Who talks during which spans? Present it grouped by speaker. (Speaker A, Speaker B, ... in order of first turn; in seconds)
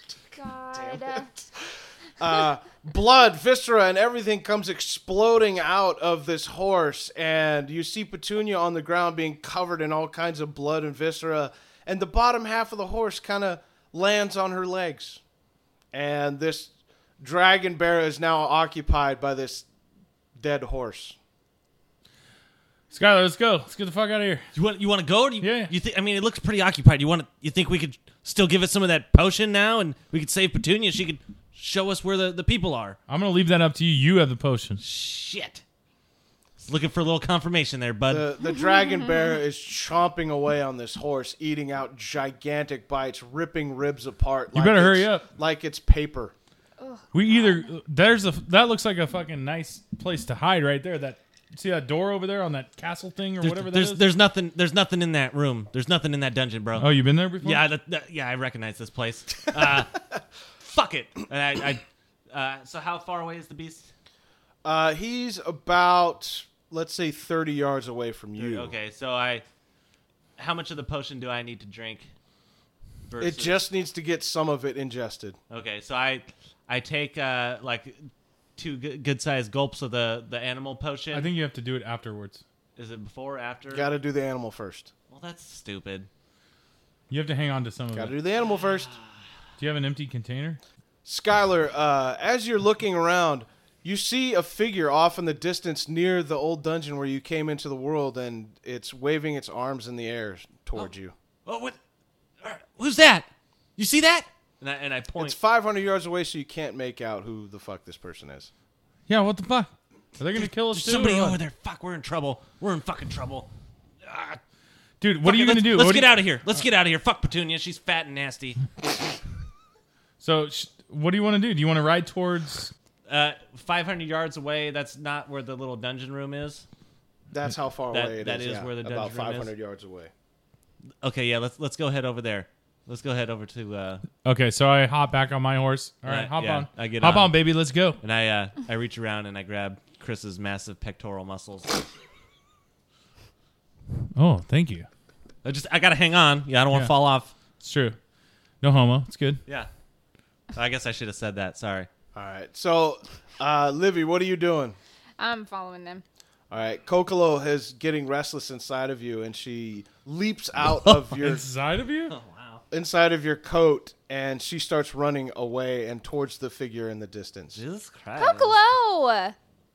Speaker A: 0.3-1.3, 38.4-39.4, 46.8-47.6, 155.2-156.0, 168.2-169.3
Speaker B: 0.7-1.3, 2.2-15.2, 15.9-19.6, 20.4-21.1, 38.1-46.3, 64.6-68.7, 73.2-75.4, 83.7-84.9, 87.9-88.9, 91.0-101.1, 105.2-108.5, 127.3-130.1, 152.1-154.8, 156.5-161.4, 162.7-167.6
Speaker C: 22.9-24.5, 25.4-25.7, 33.1-34.8, 44.5-45.3, 47.1-54.0, 56.8-57.7, 81.1-82.4, 87.1-88.1, 89.6-90.6, 109.1-111.4, 115.0-116.2, 120.2-122.7, 134.2-138.0, 144.2-144.9, 147.6-148.0, 148.6-149.4, 161.1-162.1
Speaker D: 24.5-33.0, 34.8-35.6, 36.6-38.3, 53.4-60.0, 60.6-63.9, 68.4-69.4, 70.4-72.1, 73.1-73.6, 75.5-81.3, 82.8-83.9, 85.1-86.1, 88.6-89.2, 101.5-101.8, 102.4-105.4, 110.3-113.5, 114.0-114.4, 115.2-118.6, 123.1-126.6, 127.9-129.5, 131.0-134.0, 136.0-137.4, 138.0-141.8, 145.4-147.3, 150.5-151.9, 162.1-162.6, 167.5-168.5